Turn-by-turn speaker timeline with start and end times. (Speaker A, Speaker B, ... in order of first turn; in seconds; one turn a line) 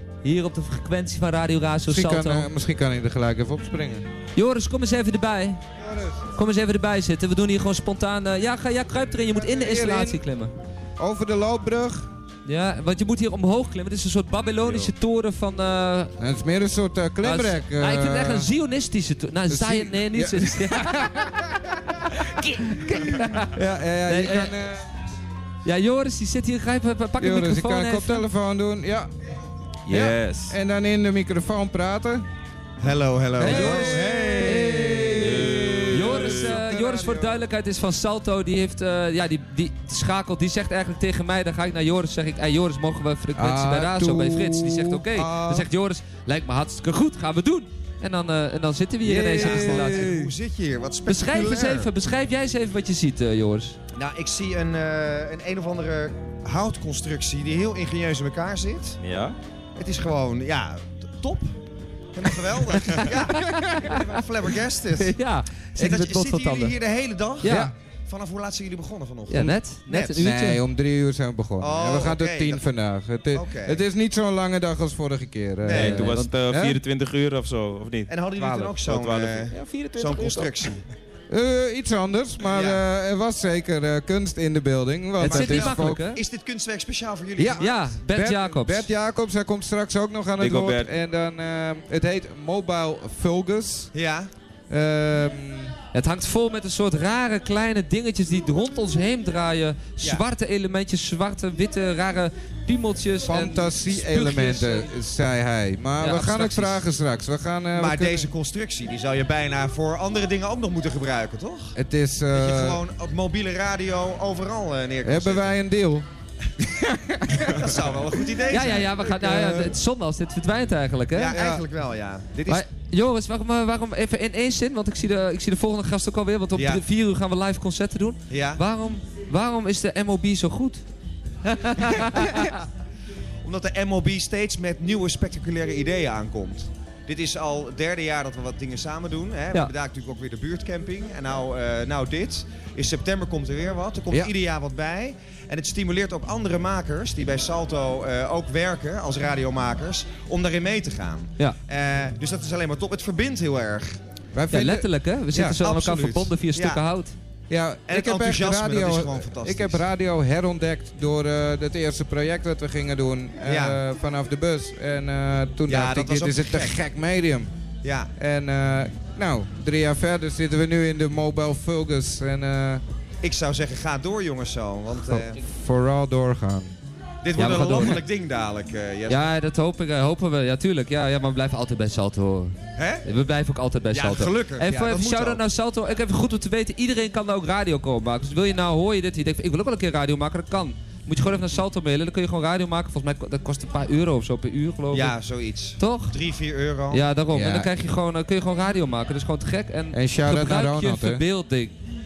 Speaker A: 0.2-2.5
Speaker B: 1.9-4.1
Speaker A: 4.4-5.6
Speaker B: 5.8-6.2
Speaker A: 6.3-10.5
Speaker B: 9.3-10.2
Speaker B: 11.0-12.1
Speaker A: 12.5-16.1
Speaker B: 16.2-18.5
Speaker A: 17.2-23.5
Speaker B: 19.5-21.4
Speaker B: 22.9-24.9
Speaker A: 24.1-24.5
Speaker A: 25.6-28.2
Speaker B: 27.2-29.1
Speaker C: 29.9-30.6
Speaker B: 29.9-32.2
Speaker D: 32.8-34.7
Speaker B: 33.4-37.4
Speaker A: 33.4-35.3
Speaker C: 35.1-36.6
Speaker A: 35.9-50.2
Speaker B: 43.4-45.7
Speaker B: 49.0-50.3
Speaker D: 49.2-51.9
Speaker A: 51.1-53.8
Speaker D: 54.0-59.0
Speaker C: 59.0-59.4
Speaker D: 59.8-61.6
Speaker D: 62.1-65.2
Speaker A: 62.8-64.0
Speaker B: 63.6-63.9
Speaker A: 65.0-66.8
Speaker D: 65.8-70.3
Speaker A: 67.4-67.7
Speaker B: 67.4-67.7
Speaker A: 69.3-70.6
Speaker B: 70.2-76.8
Speaker D: 71.6-72.6
Speaker D: 73.3-73.8
Speaker D: 75.6-76.2
Speaker C: 75.7-79.5
Speaker A: 75.8-76.3
Speaker D: 78.1-80.8
Speaker A: 79.5-80.6
Speaker B: 81.3-86.0
Speaker D: 82.4-82.8
Speaker D: 85.2-87.9
Speaker A: 85.2-86.2
Speaker B: 87.4-93.9
Speaker A: 87.6-88.9
Speaker C: 90.4-90.9
Speaker D: 93.9-94.3
Speaker B: 94.7-95.7
Speaker A: 95.9-104.9
Speaker B: 103.3-108.3
Speaker A: 106.0-106.8
Speaker D: 107.8-111.8
Speaker B: 111.8-112.8
Speaker D: 112.3-115.5
Speaker B: 115.0-116.1
Speaker B: 116.6-117.8
Speaker D: 117.4-119.8
Speaker A: 118.5-121.4
Speaker D: 121.1-122.6
Speaker B: 121.3-121.6
Speaker A: 122.5-130.8
Speaker D: 126.5-126.8
Speaker D: 128.3-128.6
Speaker A: 131.4-132.6
Speaker D: 133.4-154.0
Speaker B: 154.3-155.6
Speaker A: 154.5-157.1
Speaker D: 155.5-156.8
Speaker B: 157.5-167.5
Speaker D: 157.9-159.8
Speaker D: 163.5-163.8
Speaker D: 165.7-166.8
Speaker D: 167.8-168.1
Speaker B: 168.2-172.8
Speaker D: 173.2-175.4
Speaker B: 175.0-176.7
Speaker D: 177.2-179.2
Speaker A: 177.3-178.0
Speaker A: 179.1-195.2
Speaker D: 182.8-183.1
Speaker D: 183.9-185.4
Speaker D: 194.9-197.0
Speaker A: 195.8-196.2
Speaker A: 196.9-201.8
Speaker B: 197.3-197.7
Speaker B: 199.9-201.2